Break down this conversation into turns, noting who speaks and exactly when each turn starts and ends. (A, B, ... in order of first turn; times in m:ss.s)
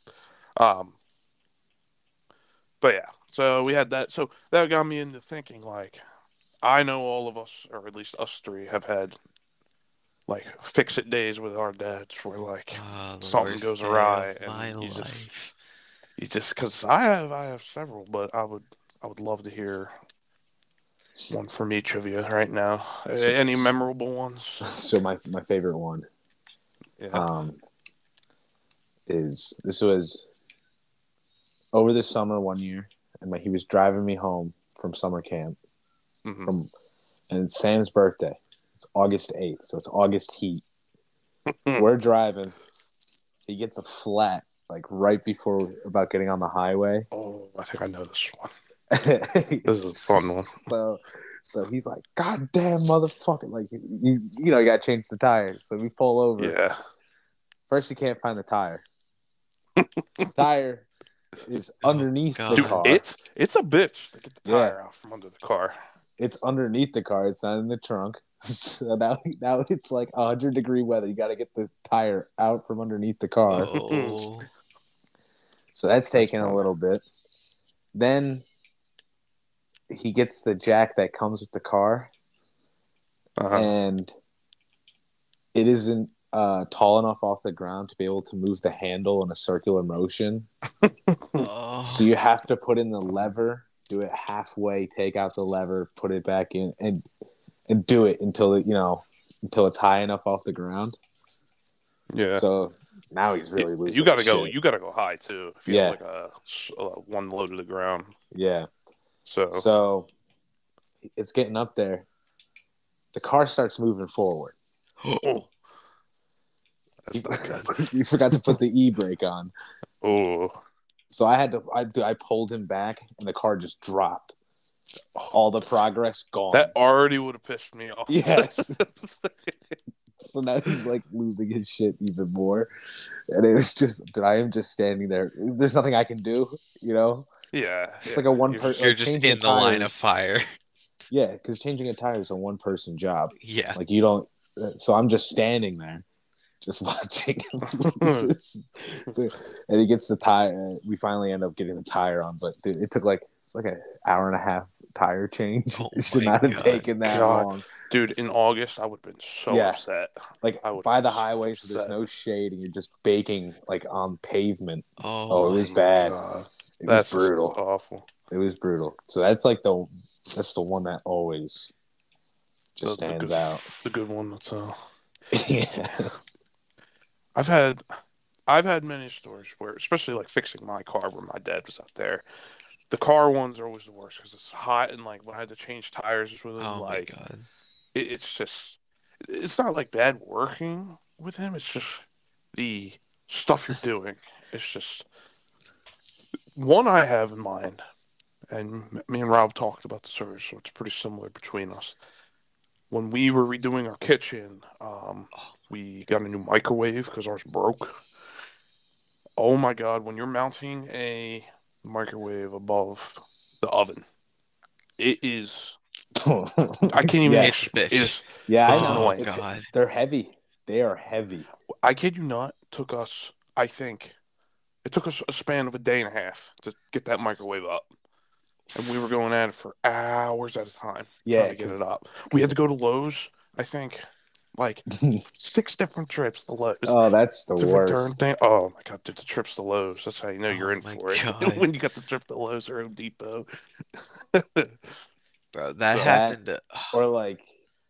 0:00.6-0:01.0 A
0:02.8-0:06.0 A
0:06.6-0:09.2 A
0:10.3-0:15.3 A
0:12.7-0:15.5 B
0:16.2-0:20.0 A
0:21.3-0:24.7 A
0:23.2-0:23.7 C
0:24.6-0:26.1 C
0:27.0-0:27.3 A
0:27.1-0:27.6 C
0:29.1-0:30.3 C
0:31.7-0:35.6 C
0:36.2-0:36.5 A
0:37.3-0:40.6 C
0:41.6-0:41.9 A
0:41.8-0:42.6 C
0:43.5-0:47.1 C
0:47.1-0:48.5 A
0:48.9-0:56.6 C
0:49.6-0:50.7 A
0:56.4-0:56.8 A
0:57.7-0:58.8 C
0:59.8-1:00.3 A
1:00.4-1:00.9 C
1:01.4-1:03.0 C
1:01.8-1:03.0 B
1:02.5-1:05.8 A
1:04.4-1:04.8 C
1:06.2-1:13.7 C
1:13.5-1:14.5 B
1:13.7-1:14.2 A
1:15.8-1:17.0 C
1:16.1-1:16.6 A
1:17.9-1:18.4 C
1:19.9-1:22.1 C
1:23.4-1:23.7 A
1:23.5-1:24.1 C
1:25.5-1:30.5 C
1:30.8-1:31.4 A
1:31.4-1:32.1 B
1:31.9-1:37.0 C
1:37.7-1:41.0 C
1:42.1-1:42.4 A
1:42.4-1:44.6 C
1:43.6-1:48.2 A
1:45.7-1:46.0 C
1:48.3-1:48.7 C
1:49.3-1:49.7 A
1:49.5-1:50.1 C
1:51.0-1:52.1 C
1:53.1-1:54.5 C
1:55.0-1:55.5 A
1:57.0-1:57.9 A
1:57.1-1:59.5 C
2:00.0-2:00.6 A
2:01.1-2:04.3 C
2:05.3-2:06.7 C
2:06.5-2:09.8 A
2:08.1-2:08.8 C
2:10.2-2:17.3 C
2:17.5-2:18.8 A
2:18.1-2:20.1 C
2:18.8-2:20.5 B
2:21.1-2:26.0 C
2:23.4-2:23.8 B
2:26.6-2:37.7 C
2:27.7-2:28.3 A
2:35.8-2:36.9 B
2:37.0-2:42.0 A
2:39.5-2:39.8 C
2:40.4-2:46.2 C
2:45.0-2:45.8 B
2:45.3-2:48.1 A
2:46.8-2:47.6 C
2:48.3-2:51.7 C
2:52.8-2:53.7 C
2:52.8-2:54.8 A
2:55.3-2:56.1 C
2:57.4-2:57.8 A
2:58.5-3:02.2 A
3:02.9-3:07.1 A
3:06.6-3:07.5 B
3:07.9-3:15.1 A
3:16.6-3:17.8 A
3:18.5-3:22.0 A
3:22.9-3:28.0 A
3:29.4-3:34.0 A
3:35.0-3:35.8 A
3:36.2-3:37.6 C
3:36.9-3:39.3 A
3:37.4-3:39.7 B
3:38.5-3:41.5 C
3:41.8-3:44.2 A
3:44.8-3:47.9 A
3:48.8-3:54.0 A
3:51.2-3:51.9 C
3:54.6-3:54.8 A
3:54.9-3:55.2 C
3:55.4-3:57.0 A
3:56.9-3:58.2 C
3:57.6-4:04.9 A
4:00.5-4:01.7 B
4:05.5-4:07.0 B
4:05.9-4:06.2 A
4:06.0-4:06.4 C
4:06.9-4:07.5 C